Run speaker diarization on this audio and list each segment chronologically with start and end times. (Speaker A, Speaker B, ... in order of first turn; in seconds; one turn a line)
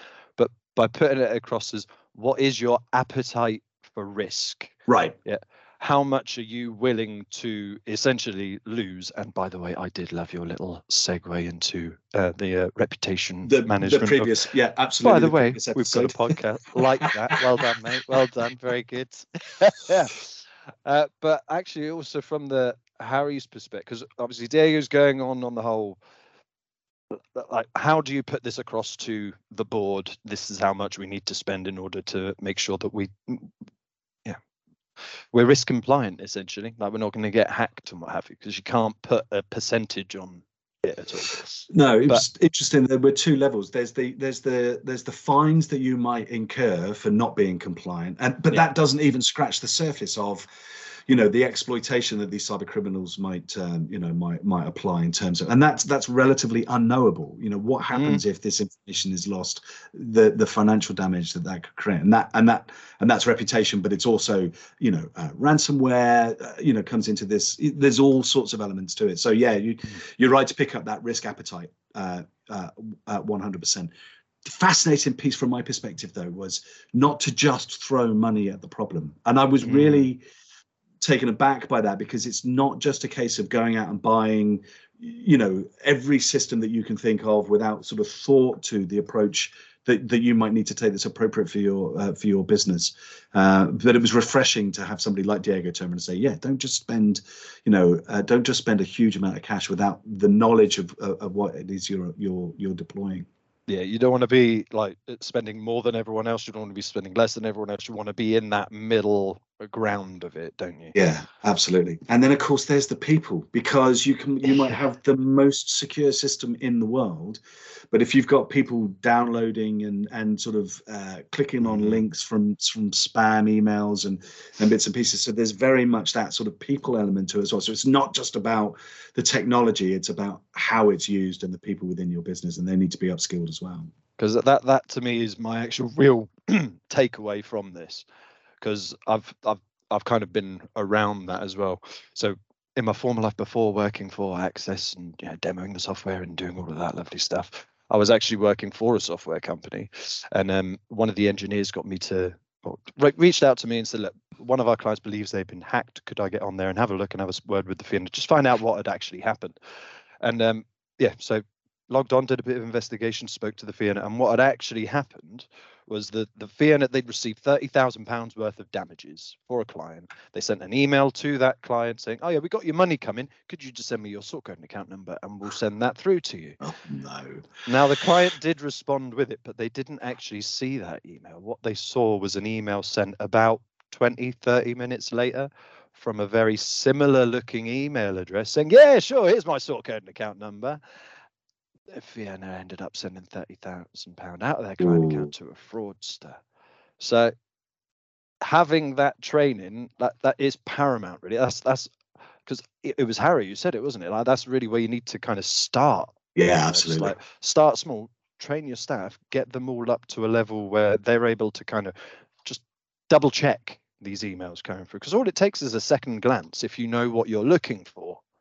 Speaker A: 0.4-14.4
Speaker B: 4.9-5.1
Speaker B: 13.4-16.3
Speaker A: 15.0-26.0
Speaker A: 27.1-33.5
Speaker A: 35.3-42.2
Speaker B: 41.7-50.5
Speaker B: 51.1-73.9
Speaker A: 57.9-58.2
Speaker B: 74.4-80.2
Speaker A: 79.6-80.1
Speaker B: 81.0-103.2
Speaker A: 103.7-110.9
Speaker B: 110.9-117.4
Speaker B: 117.9-133.9
Speaker A: 134.2-138.0
Speaker A: 138.6-159.6
Speaker A: 160.2-176.6
Speaker B: 176.6-177.5
Speaker A: 177.7-190.8
Speaker A: 191.9-196.4
Speaker B: 194.8-195.3
Speaker A: 197.0-197.3
Speaker A: 198.4-201.9
Speaker A: 202.4-218.2
Speaker B: 206.3-207.1